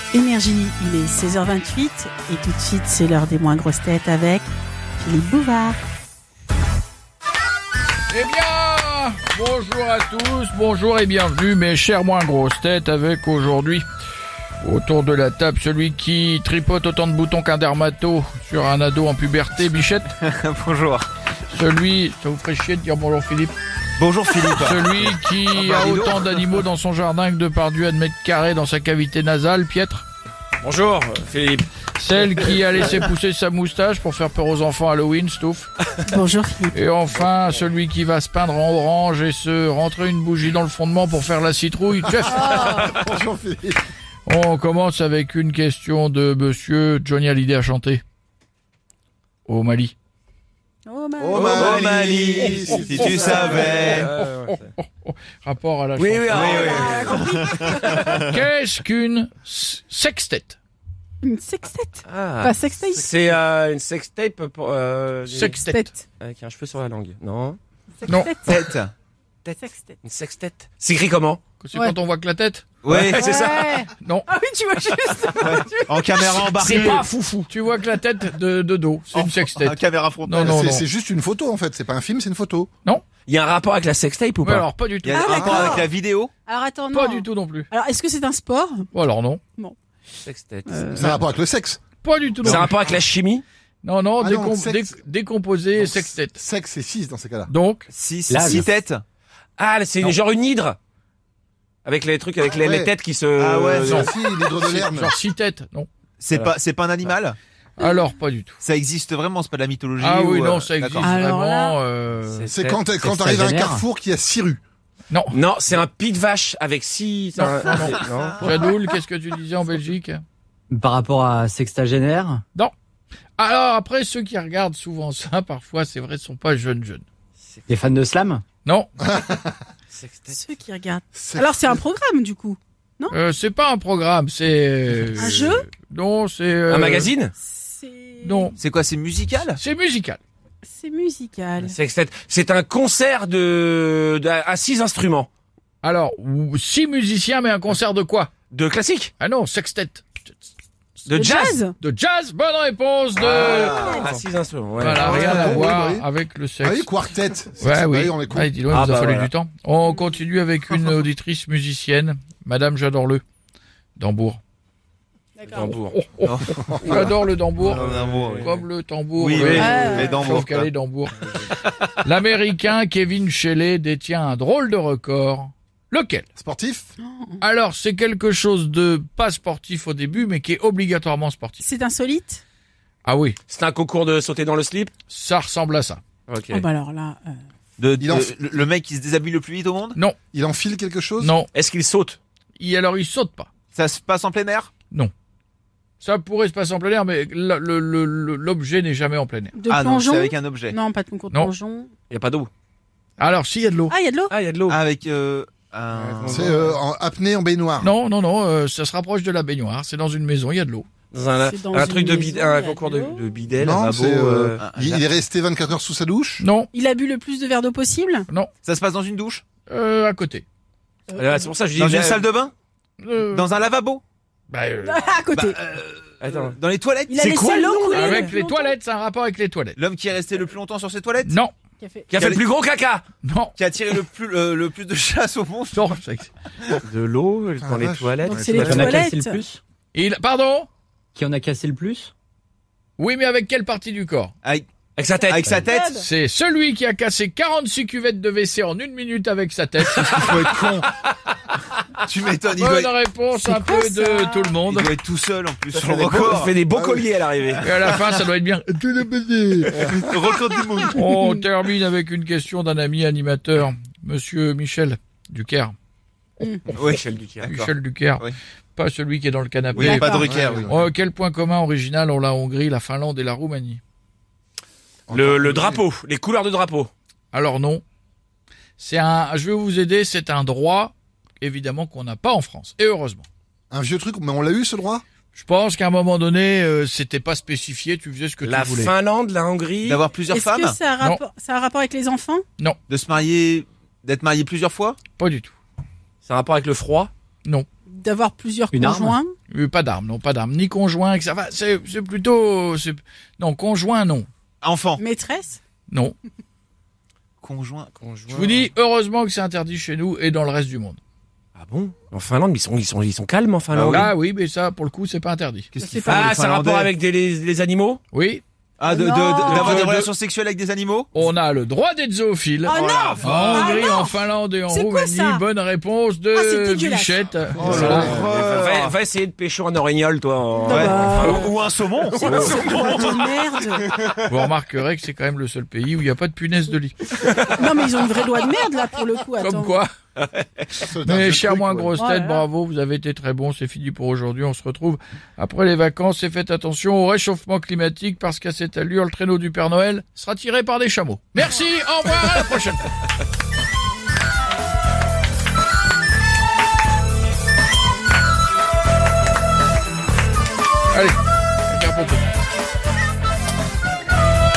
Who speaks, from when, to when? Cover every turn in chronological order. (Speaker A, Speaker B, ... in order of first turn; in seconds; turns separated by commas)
Speaker A: 0.1-4.5, Speaker A: 5.0-5.8, Speaker B: 8.1-13.9, Speaker B: 14.6-20.1, Speaker C: 20.1-21.1, Speaker B: 21.5-23.5, Speaker C: 24.0-26.3, Speaker B: 24.6-30.1, Speaker D: 30.6-31.7, Speaker B: 32.0-35.7, Speaker D: 32.2-32.6, Speaker A: 36.1-36.8, Speaker B: 36.7-42.6, Speaker E: 42.1-43.8, Speaker A: 42.2-43.0, Speaker B: 44.3-48.0, Speaker B: 49.5-50.0, Speaker A: 50.9-51.9, Speaker E: 51.2-53.4, Speaker C: 51.4-54.1, Speaker A: 52.7-54.0, Speaker D: 53.0-54.7, Speaker B: 54.5-56.6, Speaker D: 56.0-58.2, Speaker C: 56.3-58.2, Speaker A: 56.3-58.1, Speaker B: 58.0-60.6, Speaker A: 61.2-63.1, Speaker D: 62.1-65.6, Speaker B: 65.3-65.9, Speaker A: 65.4-66.0, Speaker D: 66.2-67.6, Speaker A: 68.0-68.7, Speaker B: 68.1-68.3, Speaker C: 68.5-68.9, Speaker D: 69.5-71.4, Speaker A: 69.6-70.0, Speaker B: 71.6-72.6, Speaker C: 72.8-73.3, Speaker D: 72.9-73.8, Speaker A: 73.1-76.7, Speaker B: 74.0-74.3, Speaker C: 75.4-77.0, Speaker B: 76.6-80.9, Speaker D: 76.7-77.0, Speaker C: 79.1-80.6, Speaker E: 80.4-82.7, Speaker D: 83.3-84.7, Speaker B: 84.4-85.6, Speaker C: 85.0-86.3, Speaker A: 85.1-85.9, Speaker E: 85.4-85.8, Speaker A: 86.5-88.9, Speaker B: 86.9-87.7, Speaker B: 88.9-89.4, Speaker D: 90.3-91.1, Speaker A: 90.7-91.2, Speaker E: 91.0-91.8, Speaker B: 92.0-92.8, Speaker D: 92.4-93.4, Speaker B: 93.8-96.4, Speaker E: 94.2-95.0, Speaker E: 95.8-97.5, Speaker B: 97.5-97.9, Speaker C: 97.9-99.0, Speaker F: 98.3-98.7, Speaker D: 99.6-100.8, Speaker D: 101.8-104.1, Speaker E: 102.5-102.9, Speaker C: 103.4-104.1, Speaker E: 103.9-105.1, Speaker B: 103.9-105.9, Speaker C: 106.2-107.4, Speaker B: 107.8-108.6, Speaker C: 108.6-111.1, Speaker B: 110.0-112.5, Speaker A: 111.0-111.8, Speaker D: 112.3-112.9, Speaker E: 112.5-114.6, Speaker F: 112.9-113.9, Speaker B: 115.1-115.4, Speaker D: 115.3-118.5, Speaker B: 117.4-120.2, Speaker C: 117.7-118.3, Speaker F: 120.7-122.4, Speaker B: 123.4-127.0, Speaker F: 127.7-128.4, Speaker B: 128.7-128.9, Speaker E: 129.0-129.6, Speaker D: 129.9-130.4, Speaker A: 130.3-133.2, Speaker E: 131.1-131.8, Speaker B: 133.1-137.1, Speaker A: 135.2-135.7, Speaker D: 136.7-137.3, Speaker A: 137.4-138.5, Speaker B: 138.2-138.5, Speaker C: 138.6-139.6, Speaker B: 139.6-140.2, Speaker A: 140.6-141.8, Speaker D: 141.6-145.3, Speaker B: 145.8-148.3, Speaker D: 148.5-149.1, Speaker B: 149.2-150.3, Speaker D: 151.1-151.6, Speaker A: 151.1-151.7, Speaker B: 151.8-154.0, Speaker D: 153.2-155.6, Speaker C: 153.6-153.9, Speaker B: 154.8-156.9, Speaker E: 154.9-156.1, Speaker C: 155.1-155.6, Speaker E: 156.6-158.5, Speaker B: 157.6-163.2, Speaker D: 158.7-159.3, Speaker B: 164.0-164.4, Speaker A: 165.4-165.8, Speaker D: 165.5-166.0, Speaker B: 165.9-167.9, Speaker C: 166.2-168.5, Speaker D: 167.6-168.6, Speaker B: 168.4-171.3, Speaker C: 169.2-170.7, Speaker D: 169.3-169.9, Speaker A: 169.6-170.3, Speaker B: 172.0-176.3, Speaker E: 176.4-176.9, Speaker A: 177.0-177.4, Speaker B: 177.4-181.7, Speaker A: 181.6-182.4, Speaker B: 183.1-183.4, Speaker D: 183.5-184.9, Speaker B: 185.1-186.0, Speaker D: 186.3-186.7, Speaker A: 186.5-187.4, Speaker C: 187.8-190.0, Speaker E: 188.0-188.5, Speaker E: 190.3-191.3, Speaker B: 191.2-191.5, Speaker D: 191.5-192.2, Speaker B: 192.6-193.5, Speaker C: 193.7-194.7, Speaker B: 196.0-199.5, Speaker A: 199.6-201.9, Speaker C: 199.7-200.8, Speaker D: 202.1-202.5, Speaker B: 203.2-203.9, Speaker A: 203.9-204.3, Speaker D: 204.3-204.8, Speaker C: 204.7-206.6, Speaker D: 205.9-206.8, Speaker E: 206.3-207.9, Speaker B: 207.8-210.9, Speaker D: 211.1-214.6, Speaker A: 211.4-213.2, Speaker E: 213.6-216.4, Speaker C: 213.8-215.1, Speaker B: 216.4-216.7, Speaker A: 216.7-218.3, Speaker C: 218.6-219.4, Speaker B: 219.7-220.4, Speaker A: 221.1-221.5, Speaker D: 221.2-222.2, Speaker C: 221.8-222.5, Speaker B: 223.0-223.5, Speaker C: 223.3-224.0, Speaker B: 224.5-225.0, Speaker A: 224.8-225.6, Speaker C: 225.3-227.3, Speaker D: 226.2-226.6, Speaker A: 227.1-228.8, Speaker D: 227.2-228.3, Speaker B: 227.9-229.8, Speaker C: 229.8-231.3, Speaker B: 231.2-231.5, Speaker A: 231.8-232.1, Speaker D: 232.1-233.0, Speaker C: 232.2-232.5, Speaker B: 233.2-233.6, Speaker C: 233.6-235.9, Speaker B: 235.7-236.3, Speaker D: 236.9-239.0, Speaker E: 237.6-238.7, Speaker A: 238.2-239.4, Speaker F: 238.3-239.6, Speaker B: 239.9-240.7, Speaker F: 241.2-242.1, Speaker B: 243.0-244.3, Speaker D: 245.0-245.6, Speaker C: 245.3-246.0, Speaker A: 245.6-246.1, Speaker B: 245.9-250.4, Speaker C: 250.0-250.9, Speaker E: 250.3-250.9, Speaker C: 252.0-252.9, Speaker B: 252.6-254.9, Speaker A: 253.3-254.6, Speaker C: 254.6-256.9, Speaker D: 255.7-257.7, Speaker B: 257.6-258.8, Speaker E: 258.8-260.2, Speaker C: 259.7-261.0, Speaker B: 260.9-265.8, Speaker A: 266.4-266.7, Speaker C: 266.8-268.4, Speaker D: 266.8-267.5, Speaker B: 267.5-273.8, Speaker A: 269.8-270.3, Speaker C: 269.8-270.7, Speaker E: 270.2-270.9, Speaker E: 275.1-275.8, Speaker D: 275.1-276.9, Speaker B: 277.3-277.8, Speaker B: 278.8-283.3, Speaker E: 283.7-285.0, Speaker B: 285.3-288.9, Speaker D: 288.4-290.0, Speaker C: 289.8-290.8, Speaker A: 290.3-292.4, Speaker C: 292.9-295.0, Speaker B: 295.2-295.5, Speaker D: 296.2-297.1, Speaker A: 297.9-299.3, Speaker F: 298.7-299.2, Speaker B: 299.5-304.3, Speaker C: 304.6-305.0, Speaker A: 305.0-305.6, Speaker B: 305.9-306.2, Speaker C: 307.4-307.9, Speaker D: 308.0-308.7, Speaker B: 308.3-311.0, Speaker D: 311.6-314.1, Speaker C: 313.7-314.1, Speaker B: 313.9-315.7, Speaker C: 315.7-316.9, Speaker A: 315.8-316.3, Speaker D: 316.1-318.0, Speaker B: 318.1-318.4, Speaker C: 318.8-321.1, Speaker A: 318.9-319.9, Speaker D: 319.4-320.1, Speaker B: 321.1-328.2, Speaker A: 322.7-325.4, Speaker C: 322.7-323.9, Speaker D: 323.0-323.4, Speaker A: 326.3-327.3, Speaker E: 327.5-328.4, Speaker C: 327.6-329.0, Speaker D: 327.7-331.6, Speaker A: 330.6-331.5, Speaker C: 330.6-333.5, Speaker D: 332.1-333.2, Speaker A: 332.2-333.9, Speaker E: 332.3-332.6, Speaker B: 334.2-337.1, Speaker A: 337.4-339.8, Speaker B: 339.4-339.9, Speaker D: 340.2-340.6, Speaker E: 340.8-341.9, Speaker B: 341.0-352.9, Speaker A: 341.9-342.5, Speaker B: 360.9-362.3